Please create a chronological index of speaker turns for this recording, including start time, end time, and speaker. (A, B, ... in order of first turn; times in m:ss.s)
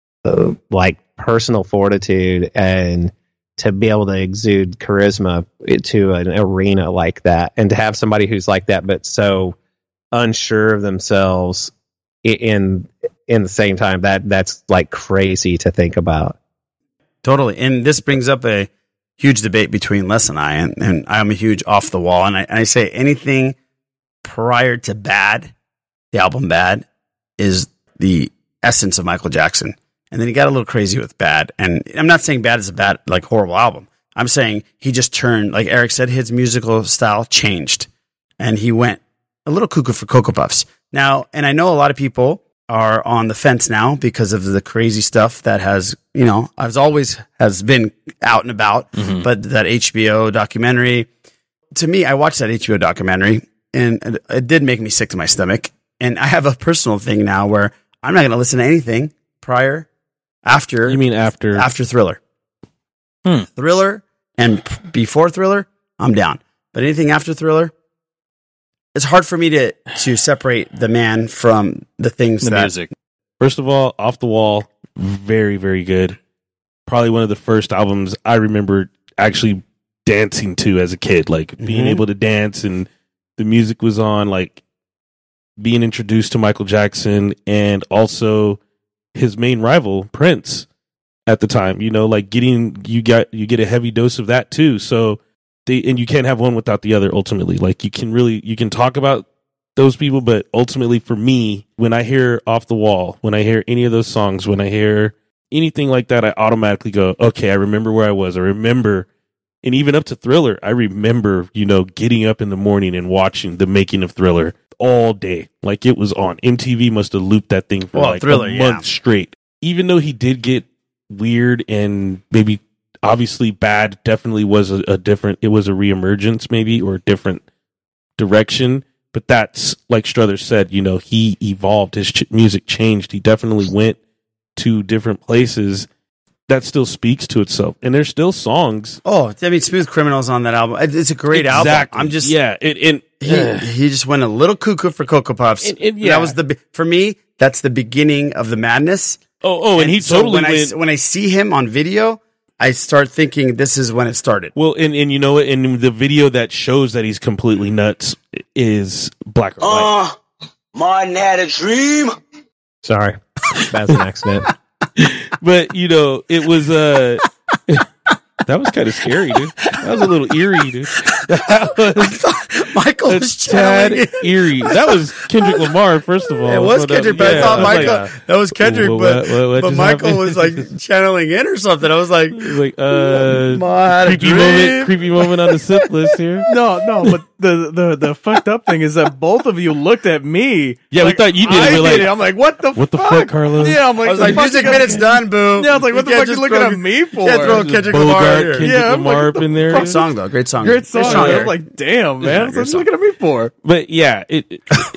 0:00.2-0:09.6 A
0:10.1-0:11.7 A
0:12.2-0:16.4 A
0:17.2-0:23.6 B
0:24.2-0:25.5 B
0:26.1-0:26.8 B
0:27.4-0:37.9 B
0:38.4-0:51.1 B
0:49.0-0:49.3 C
0:51.7-0:59.9 B
1:00.4-1:02.2 B
1:00.8-1:01.7 D
1:03.5-1:07.7 B
1:08.9-1:12.7 B
1:12.4-1:12.9 C
1:13.4-1:16.2 D
1:16.9-1:24.6 D
1:21.6-1:22.0 B
1:25.6-1:28.6 D
1:29.1-1:30.7 D
1:31.3-1:39.2 D
1:39.8-1:49.1 D
1:49.6-2:07.4 D
1:57.9-1:58.8 B
2:08.2-2:14.0 D
2:14.6-2:15.9 D
2:16.5-2:19.0 D
2:19.0-2:22.3 B
2:21.3-2:23.7 D
2:23.2-2:34.5 B
2:25.6-2:26.4 D
2:29.4-2:30.7 D
2:34.5-2:40.0 D
2:39.6-2:40.2 E
2:40.7-2:42.1 E
2:42.8-2:44.5 A
2:45.0-2:47.8 D
2:48.4-2:52.2 D
2:51.6-2:55.7 B
2:53.0-3:00.7 D
2:56.4-3:05.9 B
2:57.2-2:57.9 C
3:02.3-3:06.5 D
3:06.5-3:17.9 C
3:10.9-3:12.2 D
3:12.7-3:14.8 D
3:14.0-3:18.7 B
3:17.4-3:20.0 D
3:18.6-3:20.0 C
3:19.7-3:21.6 B
3:20.6-3:23.5 C
3:20.9-3:21.5 D
3:22.2-3:22.9 B
3:23.6-3:24.6 D